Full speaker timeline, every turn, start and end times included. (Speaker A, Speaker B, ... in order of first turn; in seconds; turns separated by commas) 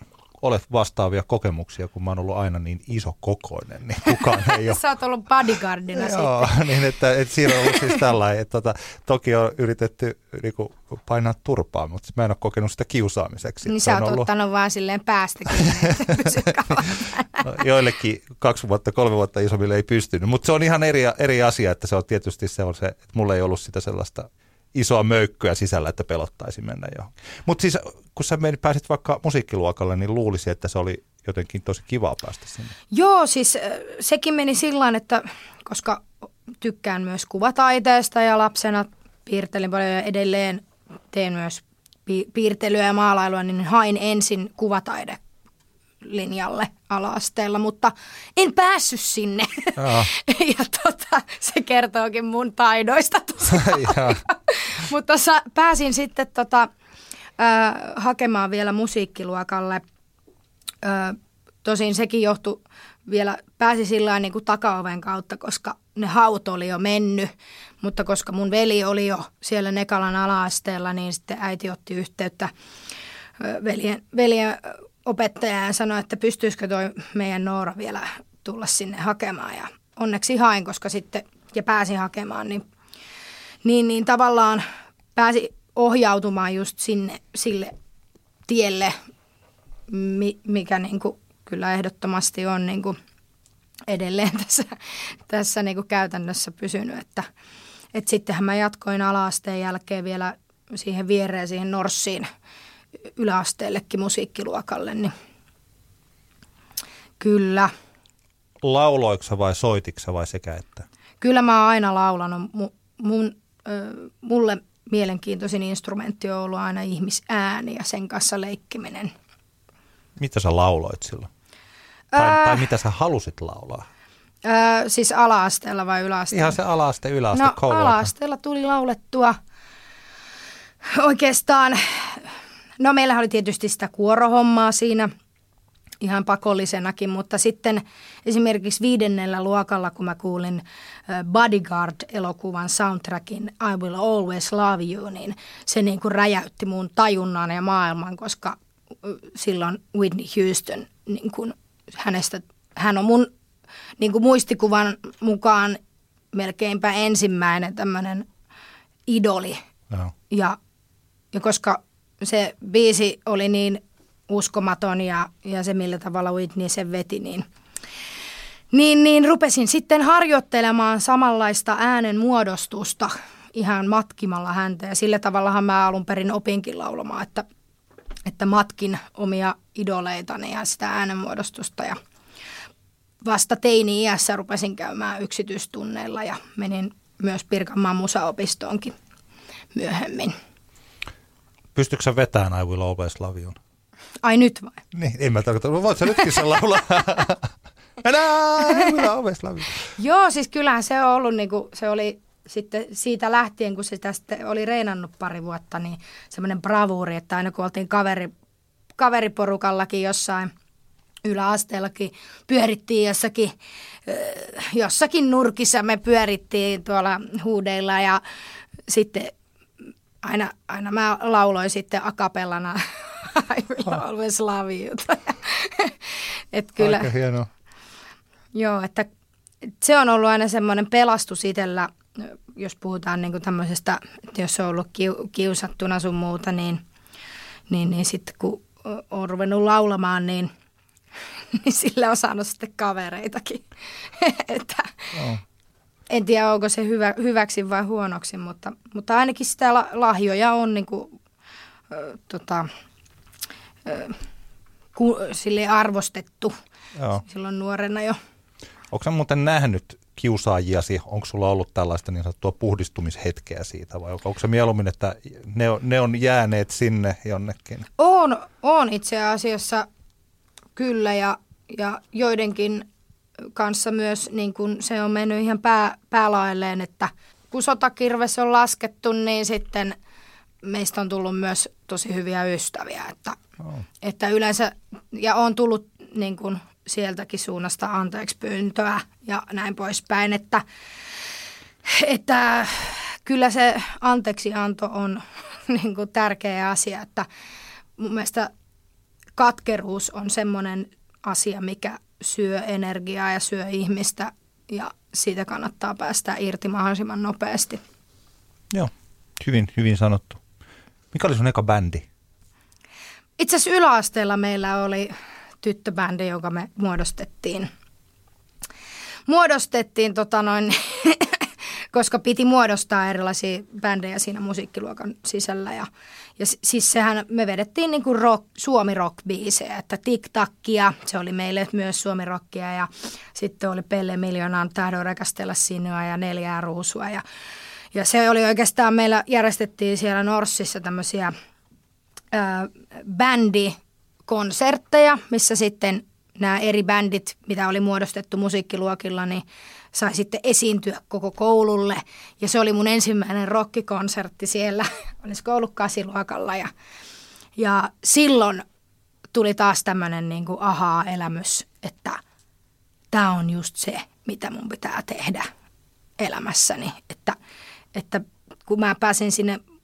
Speaker A: 0.4-4.8, Speaker B: 4.5-6.7, Speaker A: 5.9-14.3, Speaker B: 7.6-7.9, Speaker B: 13.7-17.5, Speaker A: 15.5-16.3, Speaker A: 17.4-32.7, Speaker B: 32.9-36.1, Speaker B: 36.6-45.2, Speaker B: 46.0-56.7, Speaker A: 49.8-50.1, Speaker A: 53.5-54.2, Speaker B: 57.4-59.8, Speaker B: 60.8-72.5, Speaker B: 73.4-82.6, Speaker B: 83.6-84.7, Speaker B: 85.2-87.7, Speaker B: 88.5-89.0, Speaker B: 89.9-93.0, Speaker B: 93.9-94.8, Speaker B: 95.3-97.3, Speaker B: 97.9-102.3, Speaker B: 103.2-105.1, Speaker B: 107.2-107.7, Speaker A: 108.6-110.9, Speaker B: 111.2-119.1, Speaker A: 120.2-121.3, Speaker B: 122.1-122.6, Speaker A: 122.2-123.9, Speaker B: 124.5-126.6, Speaker A: 126.3-128.1, Speaker B: 127.3-129.4, Speaker B: 130.9-132.3, Speaker B: 132.8-135.1, Speaker B: 136.0-153.3, Speaker B: 154.0-155.8, Speaker B: 156.3-158.3, Speaker B: 159.1-159.6, Speaker B: 160.3-160.6, Speaker B: 161.3-167.4, Speaker B: 168.7-177.5, Speaker B: 178.3-182.0, Speaker B: 183.2-188.9, Speaker B: 189.8-190.3, Speaker A: 191.8-193.6, Speaker B: 194.2-194.8, Speaker A: 194.9-197.5, Speaker A: 198.0-199.8, Speaker B: 200.0-208.3, Speaker B: 209.0-210.5, Speaker B: 211.2-213.5, Speaker B: 214.1-218.2, Speaker B: 218.9-219.3, Speaker B: 220.2-227.1, Speaker A: 226.8-227.5, Speaker B: 228.5-229.1, Speaker B: 229.8-236.8, Speaker B: 237.7-240.5, Speaker B: 241.5-245.2, Speaker A: 245.2-245.4, Speaker B: 246.1-251.1, Speaker B: 251.9-252.7, Speaker B: 253.9-254.2, Speaker B: 254.9-256.5, Speaker A: 257.0-257.2, Speaker B: 257.2-258.2, Speaker A: 258.9-267.9, Speaker B: 268.0-269.9, Speaker B: 270.8-272.9, Speaker B: 273.5-280.0, Speaker B: 280.6-283.4, Speaker B: 284.0-290.6, Speaker B: 291.9-297.3, Speaker B: 298.0-298.5, Speaker B: 299.4-307.8, Speaker A: 308.7-310.4, Speaker A: 311.1-312.1, Speaker B: 313.4-317.7, Speaker B: 319.3-325.9, Speaker B: 326.4-337.2, Speaker B: 337.9-341.3, Speaker B: 342.3-343.8, Speaker B: 344.3-356.7, Speaker B: 357.6-358.6, Speaker B: 359.3-362.2, Speaker B: 363.1-365.5, Speaker B: 366.2-367.4, Speaker B: 367.9-369.6